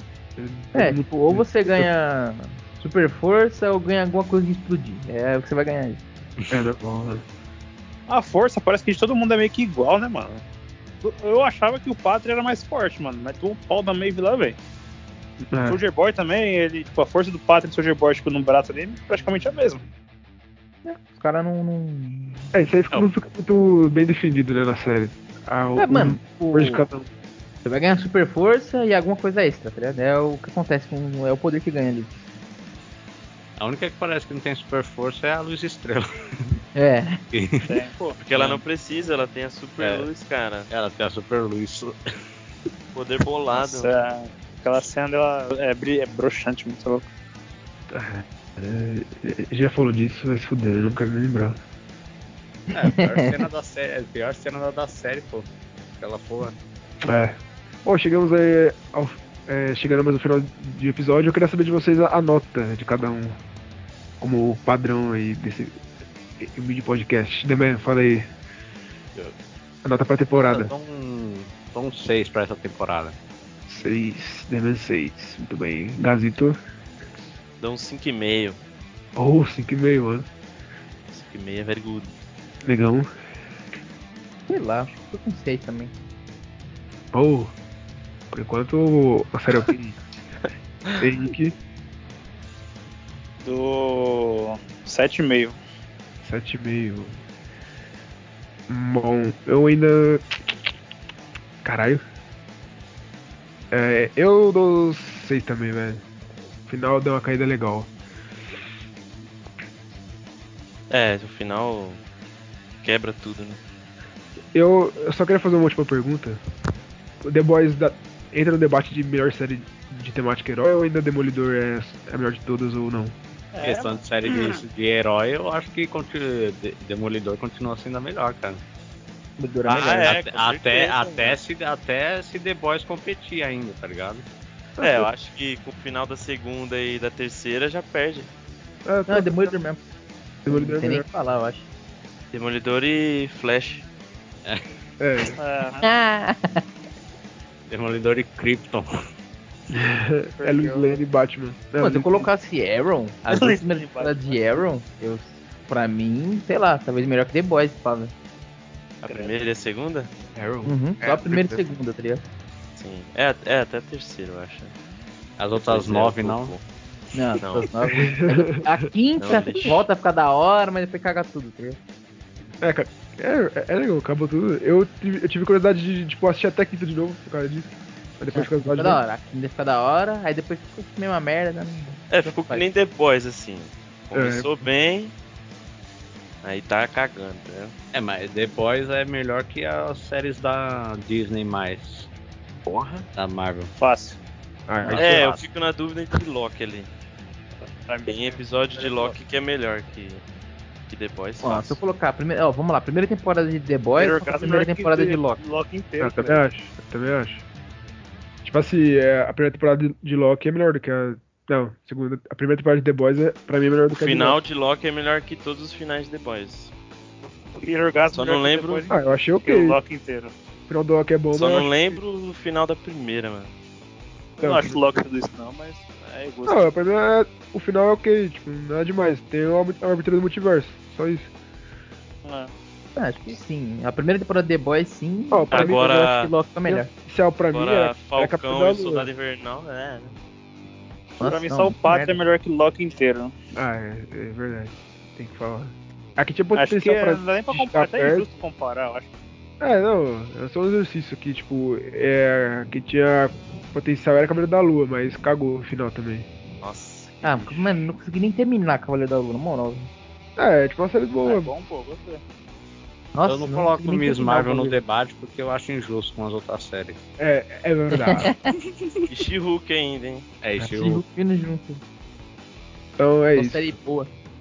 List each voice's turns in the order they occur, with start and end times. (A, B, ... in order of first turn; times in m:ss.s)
0:00.4-0:01.9 A
0:00.8-0:06.0 B
0:06.5-0:07.2 A
0:08.1-0:10.4 C
0:11.0-0:14.6 C
0:15.5-0:15.8 A
0:15.7-0:19.8 C
0:20.8-0:22.5 B
0:22.5-0:27.1 A
0:25.8-0:26.9 B
0:27.6-0:32.2 B
0:33.6-0:36.6 D
0:36.8-0:37.2 B
0:37.3-0:37.7 D
0:37.7-0:38.2 C
0:38.2-0:40.7 E
0:38.3-0:38.6 D
0:39.8-0:40.1 D
0:40.7-0:42.0 D
0:43.0-0:43.9 E
0:43.5-0:47.1 C
0:47.9-0:51.6 A
0:52.7-0:53.4 B
0:52.7-0:55.5 D
0:56.0-0:56.6 D
0:57.1-1:03.4 A
1:04.2-1:05.8 A
1:06.4-1:08.3 A
1:09.8-1:10.7 A
1:10.3-1:13.2 D
1:13.7-1:16.6 A
1:17.6-1:18.6 E
1:19.2-1:20.3 A
1:21.1-1:22.1 E
1:22.6-1:23.1 A
1:24.5-1:25.9 B
1:27.1-1:27.5 A
1:28.3-1:29.8 A
1:31.0-1:31.6 A
1:33.4-1:35.6 C
1:36.2-1:37.2 A
1:38.7-1:40.5 A
1:41.6-1:42.0 A
1:43.7-1:46.0 A
1:46.7-1:47.9 A
1:50.9-1:52.0 E
1:52.8-1:53.6 E
1:54.5-1:56.4 A
1:57.2-2:03.2 A
2:03.5-2:04.6 C
2:03.6-2:08.6 D
2:09.4-2:10.1 B
2:09.7-2:11.4 E
2:10.0-2:14.2 D
2:14.8-2:15.1 A
2:14.8-2:18.3 E
2:18.9-2:19.6 A
2:19.1-2:19.8 B
2:20.4-2:21.1 A
2:20.5-2:21.7 B
2:22.3-2:23.8 E
2:25.0-2:25.4 A
2:25.4-2:25.9 C
2:25.8-2:26.6 B
2:27.7-2:28.9 D
2:29.7-2:32.3 A
2:30.4-2:31.0 C
2:31.8-2:38.1 B
2:33.3-2:34.6 C
2:39.0-2:40.1 E
2:39.1-2:39.3 C
2:40.4-2:40.8 A
2:40.6-2:42.2 B
2:41.0-2:41.4 E
2:42.8-2:44.7 E
2:45.4-2:46.5 D
2:45.5-2:46.6 E
2:47.1-2:51.8 B
2:47.4-2:47.7 E
2:47.9-2:48.7 A
2:49.2-2:49.8 E
2:52.6-2:59.0 A
2:58.4-3:02.7 B
3:02.1-3:05.1 E
3:04.1-3:04.7 A
3:06.4-3:07.7 E
3:07.9-3:12.1 D
3:13.2-3:13.7 D
3:13.8-3:14.2 C
3:14.7-3:15.3 A
3:14.9-3:15.5 D
3:14.9-3:16.9 E
3:17.9-3:19.2 C
3:18.1-3:20.2 E
3:20.9-3:21.8 E
3:21.4-3:25.4 B
3:24.0-3:26.4 C
3:26.0-3:27.4 A
3:28.4-3:34.4 A
3:33.9-3:36.7 E
3:37.3-3:40.3 C
3:38.2-3:38.8 E
3:38.9-3:39.8 A
3:40.7-3:42.0 A
3:41.3-3:43.5 E
3:44.4-3:45.0 A
3:44.4-3:46.7 C
3:46.5-3:51.3 A
3:52.2-3:52.5 C
3:53.0-3:56.9 B
3:55.3-3:55.8 A
3:55.5-3:56.3 E
3:56.7-3:59.1 A
3:57.5-4:00.2 E
4:01.2-4:03.3 C
4:01.2-4:02.2 B
4:03.6-4:08.3 A
4:06.6-4:09.1 C
4:09.6-4:16.3 A
4:16.6-4:17.4 E
4:17.2-4:19.9 B
4:20.4-4:21.5 A
4:21.2-4:22.2 C
4:23.2-4:24.8 B
4:23.3-4:27.0 D
4:27.2-4:28.3 A
4:28.0-4:28.3 B
4:28.8-4:29.1 D
4:29.1-4:30.3 E
4:30.4-4:31.0 D
4:30.7-4:31.8 B
4:33.0-4:33.6 A
4:33.4-4:34.1 B